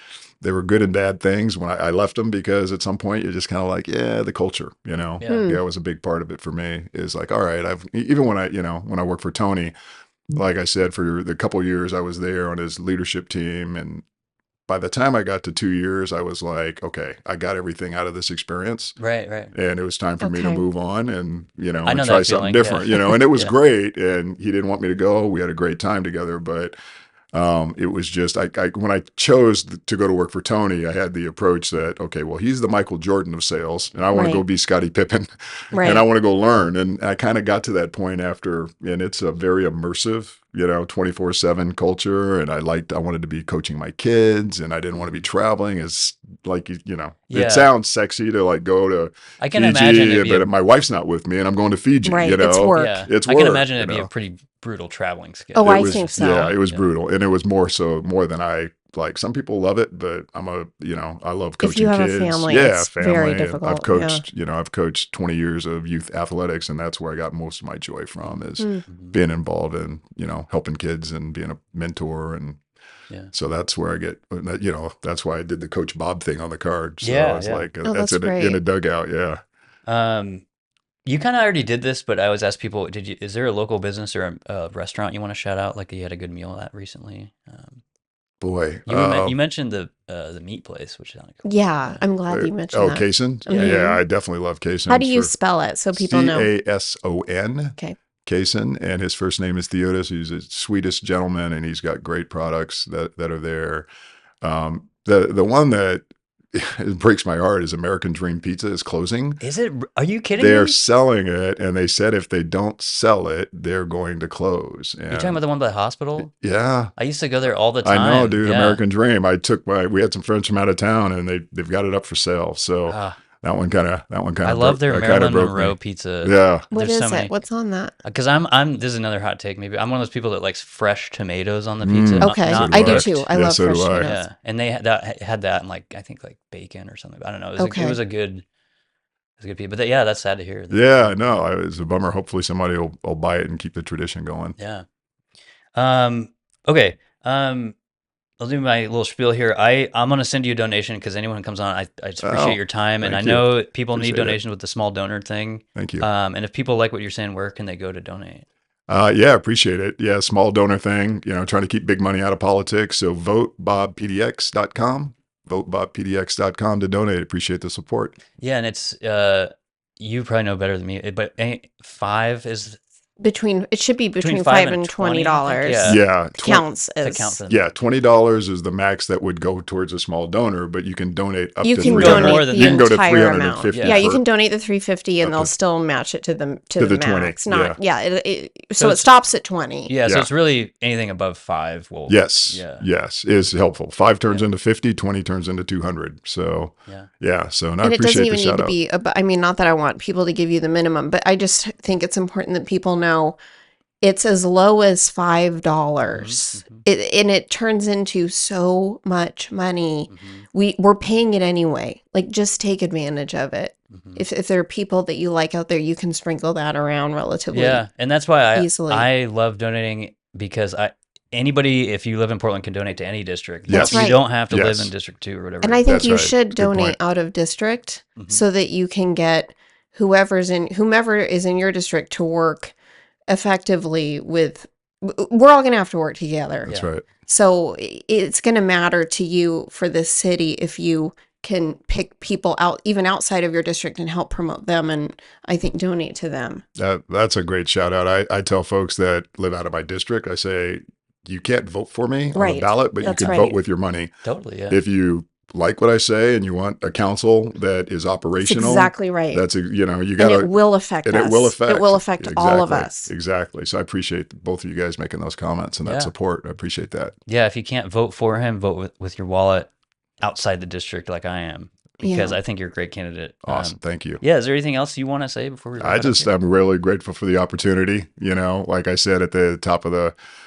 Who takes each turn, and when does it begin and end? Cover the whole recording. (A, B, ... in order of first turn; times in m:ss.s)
0:00.4-0:09.7 A
0:05.2-0:05.5 B
0:05.2-0:05.6 C
0:10.3-0:14.0 A
0:14.7-0:19.0 A
0:19.0-0:19.5 B
0:19.5-0:26.7 A
0:20.2-0:20.6 C
0:21.8-0:23.5 B
0:27.3-0:35.3 A
0:34.1-0:34.4 C
0:35.7-0:36.0 C
0:35.8-0:54.1 A
0:47.3-0:47.7 B
0:49.4-0:50.5 B
0:52.0-0:53.1 C
0:52.7-0:56.9 B
0:55.5-0:56.5 C
0:55.6-1:12.6 A
1:01.6-1:04.2 C
1:08.2-1:09.2 B
1:13.3-1:19.4 A
1:17.0-1:17.7 B
1:17.8-1:18.6 C
1:19.9-1:20.4 B
1:21.0-1:27.8 B
1:28.4-1:29.4 A
1:28.9-1:32.0 B
1:31.4-1:34.0 C
1:32.3-1:35.3 A
1:33.5-1:33.8 B
1:34.9-1:36.5 C
1:35.9-1:43.9 A
1:44.4-1:49.4 A
1:49.4-1:50.8 B
1:50.4-1:55.4 A
1:55.1-1:56.3 B
1:56.2-1:56.9 A
1:57.0-1:58.8 B
1:57.8-2:06.6 A
2:02.9-2:03.2 B
2:04.4-2:07.3 B
2:06.7-2:07.9 C
2:08.0-2:13.3 B
2:11.8-2:14.1 A
2:12.2-2:14.2 C
2:14.0-2:18.4 B
2:17.6-2:18.0 C
2:19.4-2:21.4 B
2:20.7-2:24.6 A
2:24.6-2:24.8 B
2:25.8-2:27.7 B
2:28.4-2:38.4 B
2:32.2-2:34.4 A
2:35.7-2:36.0 A
2:38.9-2:48.2 A
2:48.4-2:52.8 B
2:53.2-2:57.4 C
2:54.2-2:57.7 B
2:55.9-2:56.6 A
2:57.5-3:04.2 A
3:01.6-3:09.9 C
3:01.8-3:02.9 B
3:03.7-3:04.1 B
3:05.2-3:05.5 A
3:06.8-3:07.8 A
3:08.8-3:09.1 B
3:09.9-3:12.8 B
3:12.1-3:18.7 A
3:17.8-3:23.4 C
3:24.0-3:37.8 C
3:26.1-3:26.8 B
3:30.1-3:30.4 B
3:33.9-3:34.2 B
3:37.5-3:46.2 B
3:38.5-3:39.1 C
3:43.7-3:44.9 A
3:43.7-3:44.2 C
3:45.6-3:52.7 C
3:45.8-3:47.0 A
3:48.2-3:48.4 B
3:53.3-3:56.7 C
3:56.6-3:57.0 A
3:57.3-4:06.6 C
4:06.8-4:14.1 A
4:12.3-4:13.6 C
4:13.0-4:13.4 B
4:14.2-4:14.8 B
4:14.7-4:27.1 A
4:18.4-4:19.4 C
4:20.2-4:23.1 C
4:25.8-4:26.1 B
4:27.3-4:29.7 B
4:30.2-4:36.3 B
4:32.0-4:32.4 C
4:33.4-4:34.2 A
4:35.8-4:40.1 A